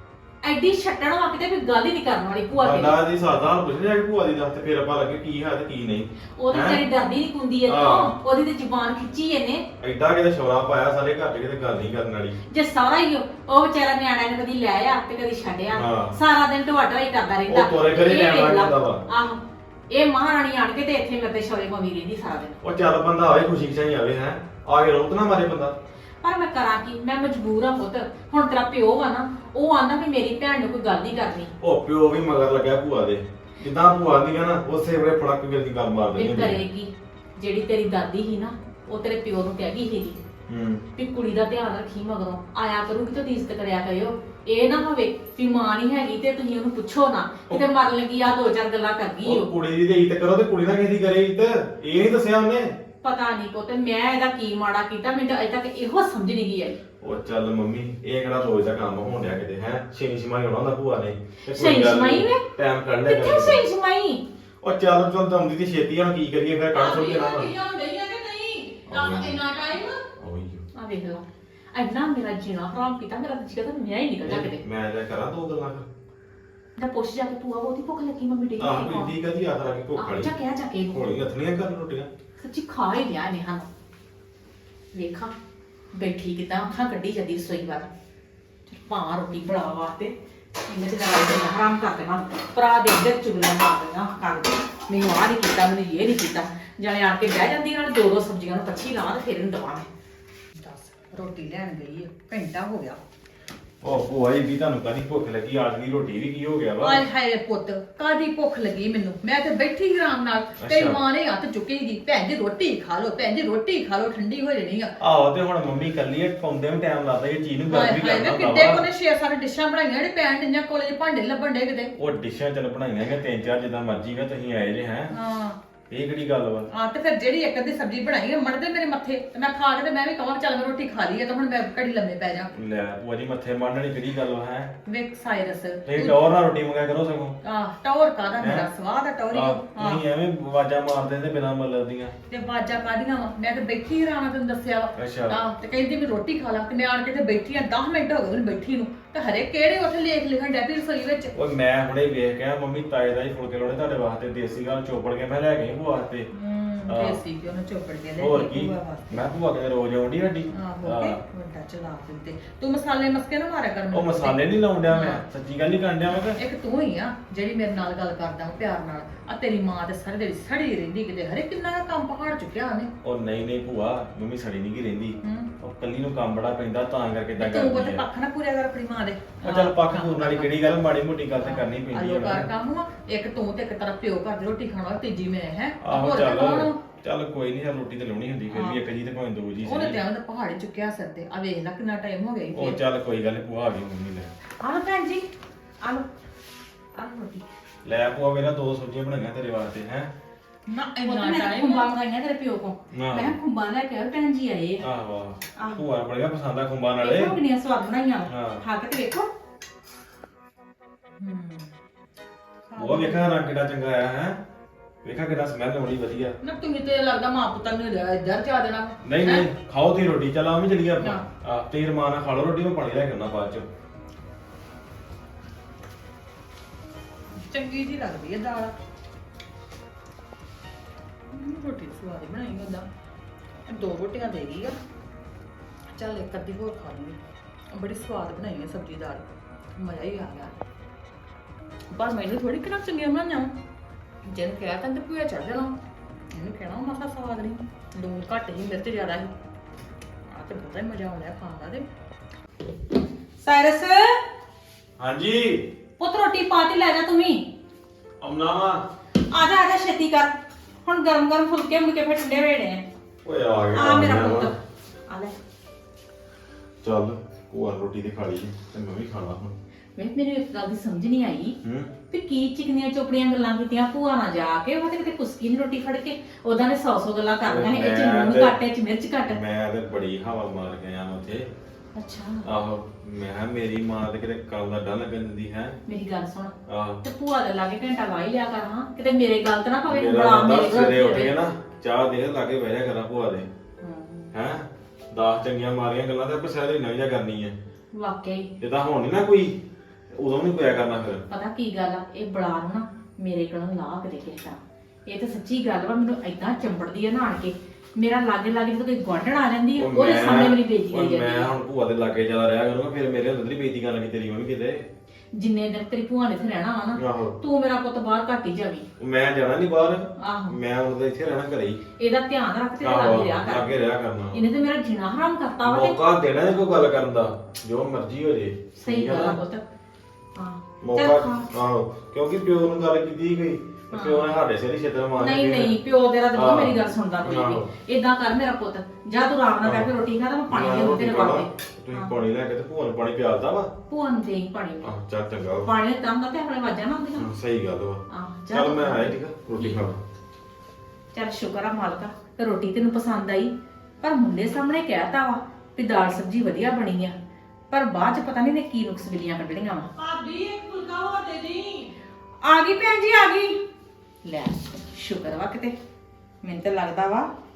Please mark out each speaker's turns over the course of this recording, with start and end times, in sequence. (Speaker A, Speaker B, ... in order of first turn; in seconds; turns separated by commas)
Speaker A: 0.4-3.0, Speaker B: 2.5-6.8, Speaker A: 6.3-9.7, Speaker B: 7.6-8.1, Speaker B: 9.8-12.4, Speaker A: 12.5-22.6, Speaker B: 15.7-16.2, Speaker B: 17.5-19.0, Speaker B: 22.6-25.8, Speaker A: 26.2-31.5, Speaker B: 31.6-36.6, Speaker A: 36.1-40.2, Speaker B: 40.5-40.8, Speaker A: 40.9-49.5, Speaker B: 49.2-52.8, Speaker A: 53.0-56.8, Speaker B: 57.0-63.6, Speaker A: 61.5-62.5, Speaker A: 63.0-64.3, Speaker B: 64.6-67.5, Speaker C: 66.7-70.1, Speaker B: 68.9-69.4, Speaker B: 70.2-70.6, Speaker A: 70.7-74.6, Speaker B: 74.2-75.9, Speaker A: 76.8-79.1, Speaker B: 78.6-80.3, Speaker A: 80.0-81.1, Speaker B: 80.9-82.1, Speaker A: 82.4-83.7, Speaker A: 84.9-85.3, Speaker A: 85.9-87.9, Speaker A: 88.7-90.1, Speaker A: 90.6-99.9, Speaker C: 100.6-103.0, Speaker B: 103.8-107.0, Speaker C: 106.8-114.9, Speaker B: 110.6-111.0, Speaker B: 115.0-118.9, Speaker C: 117.7-121.9, Speaker B: 122.0-125.1, Speaker C: 125.1-125.6, Speaker B: 125.9-126.7, Speaker C: 126.7-132.5, Speaker B: 132.5-134.7, Speaker C: 134.8-136.2, Speaker B: 135.8-137.4, Speaker C: 137.4-140.0, Speaker B: 138.4-138.7, Speaker B: 139.3-142.1, Speaker C: 142.3-151.3, Speaker B: 144.9-145.4, Speaker B: 151.3-156.3, Speaker C: 156.3-159.3, Speaker B: 156.9-157.2, Speaker B: 158.2-161.2, Speaker C: 160.5-164.4, Speaker B: 163.9-166.4, Speaker C: 164.9-165.2, Speaker C: 166.3-172.9, Speaker B: 173.0-178.0, Speaker C: 175.2-175.5, Speaker C: 177.3-180.5, Speaker B: 179.4-182.5, Speaker C: 181.4-186.8, Speaker B: 185.8-190.0, Speaker C: 188.5-188.8, Speaker C: 189.6-192.8, Speaker B: 192.5-194.3, Speaker A: 194.6-195.3, Speaker A: 195.8-196.1, Speaker A: 196.9-197.5, Speaker B: 197.8-200.1, Speaker C: 200.7-201.9, Speaker A: 201.0-204.9, Speaker B: 202.9-203.3, Speaker B: 204.8-207.4, Speaker A: 205.6-205.8, Speaker A: 207.0-209.3, Speaker B: 208.3-208.6, Speaker C: 211.2-211.7, Speaker C: 212.7-213.3, Speaker B: 212.8-214.4, Speaker B: 215.0-216.3, Speaker C: 216.4-219.5, Speaker B: 219.0-223.7, Speaker C: 227.3-228.7, Speaker C: 231.3-232.9, Speaker C: 233.7-234.8, Speaker C: 235.9-237.2, Speaker C: 237.7-240.5, Speaker C: 241.9-243.5, Speaker C: 244.2-245.7, Speaker C: 246.3-249.3, Speaker C: 250.3-251.9, Speaker A: 253.4-254.2, Speaker B: 255.0-255.7, Speaker A: 256.0-257.5, Speaker B: 258.2-258.8, Speaker A: 259.1-262.9, Speaker B: 263.2-264.5, Speaker A: 263.7-265.4, Speaker B: 266.8-269.5, Speaker A: 269.9-271.6, Speaker B: 271.6-271.9, Speaker A: 272.1-279.4, Speaker B: 277.4-278.6, Speaker B: 279.3-281.5, Speaker A: 281.9-282.5, Speaker B: 282.4-285.8, Speaker A: 285.9-291.4, Speaker B: 286.7-287.0, Speaker B: 289.8-293.5, Speaker A: 293.8-294.3, Speaker B: 294.3-297.5, Speaker A: 297.9-298.6, Speaker B: 298.6-299.6, Speaker B: 300.1-301.2, Speaker A: 301.3-311.6, Speaker B: 309.7-314.9, Speaker A: 315.3-318.9, Speaker B: 316.9-317.4, Speaker B: 319.0-321.8, Speaker A: 320.2-320.6, Speaker A: 322.0-323.7, Speaker B: 322.8-324.4, Speaker A: 324.3-326.0, Speaker B: 325.6-329.4, Speaker A: 328.8-329.7, Speaker A: 330.3-331.5, Speaker B: 330.8-335.8, Speaker A: 333.9-334.4, Speaker A: 335.1-342.1, Speaker B: 336.3-337.7, Speaker B: 339.6-339.9, Speaker B: 340.5-343.7, Speaker A: 343.9-344.9, Speaker B: 344.8-345.7, Speaker A: 345.6-347.3, Speaker B: 347.2-350.0, Speaker A: 348.1-349.8, Speaker A: 351.1-357.1, Speaker A: 357.7-359.9, Speaker C: 359.9-361.9, Speaker A: 362.4-363.6, Speaker A: 364.2-365.8, Speaker A: 366.4-367.3